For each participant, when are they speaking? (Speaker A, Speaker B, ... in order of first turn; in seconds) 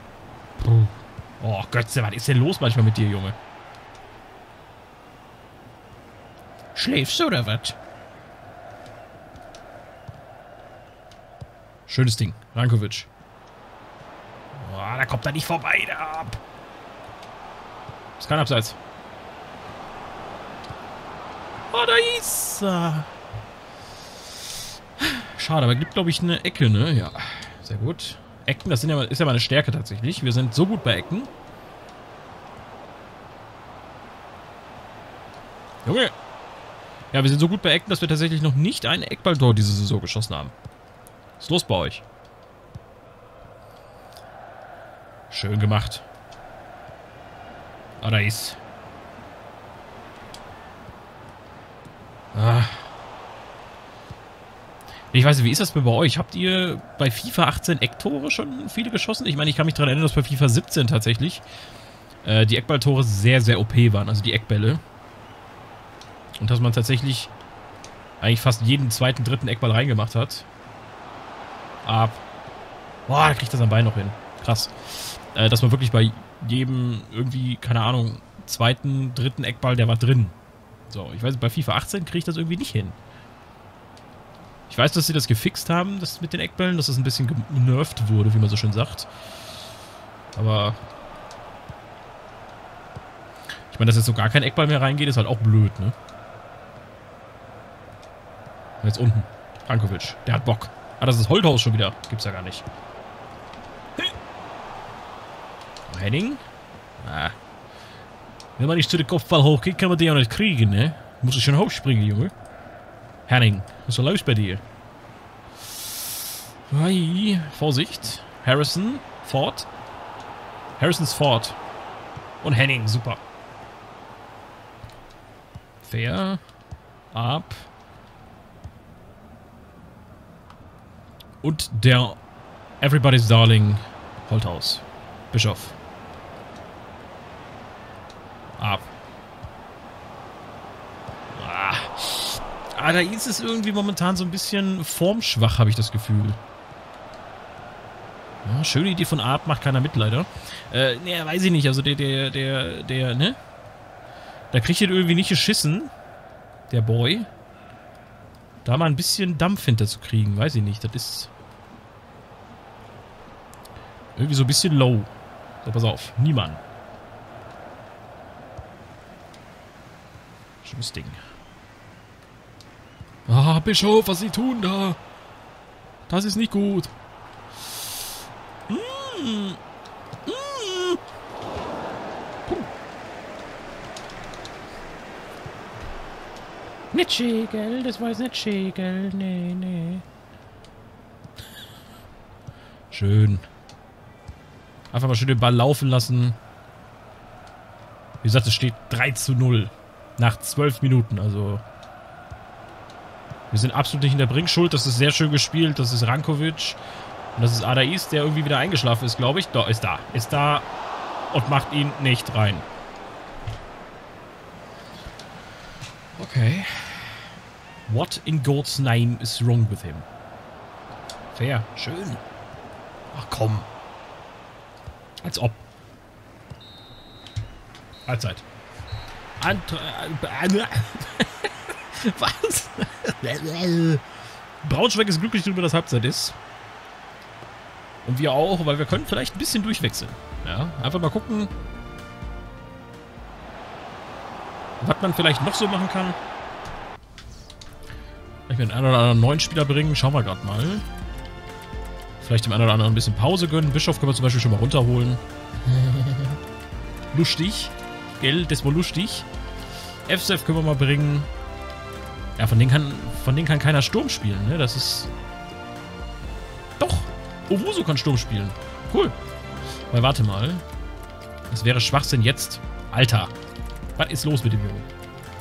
Speaker A: 0.6-3.4, 6.7-7.8, 11.9-13.1, 14.5-16.4, 18.2-18.8, 21.7-23.1, 25.0-31.3, 35.8-36.1, 37.1-40.5, 41.4-42.0, 45.3-46.0, 48.0-48.6, 52.3-52.9, 55.1-61.4, 62.2-64.8, 66.4-67.3, 68.2-70.5, 71.8-72.2, 73.1-80.3, 80.9-83.0, 84.7-89.1, 90.3-90.8, 93.7-95.9, 98.8-102.7, 105.9-106.4, 107.0-107.3, 108.6-112.3, 113.3-114.6, 115.7-119.7, 120.8-121.6, 122.4-123.2, 125.8-126.4, 127.1-127.7, 131.4-132.2, 132.8-135.8, 138.6-138.9, 141.3-146.4, 148.4-153.4, 154.5-155.9, 156.7-157.3, 158.6-161.3, 164.2-165.1, 165.6-166.6, 170.6-171.2, 173.3-175.0, 176.1-176.9, 178.7-179.6, 180.2-181.0, 186.9-190.0, 192.9-193.4, 194.9-196.4, 198.2-201.6, 203.5-206.8, 207.3-210.7, 211.3-212.7, 216.2-217.3, 217.9-220.1, 221.3-222.2, 223.1-223.7, 225.2-225.6, 228.1-228.4, 229.4-234.0, 234.6-236.4, 238.0-241.5, 244.8-246.2, 248.5-250.8, 252.2-256.4, 257.1-259.3, 260.1-261.3, 262.4-265.1, 266.8-269.1, 269.9-270.6, 271.5-273.3, 273.9-274.9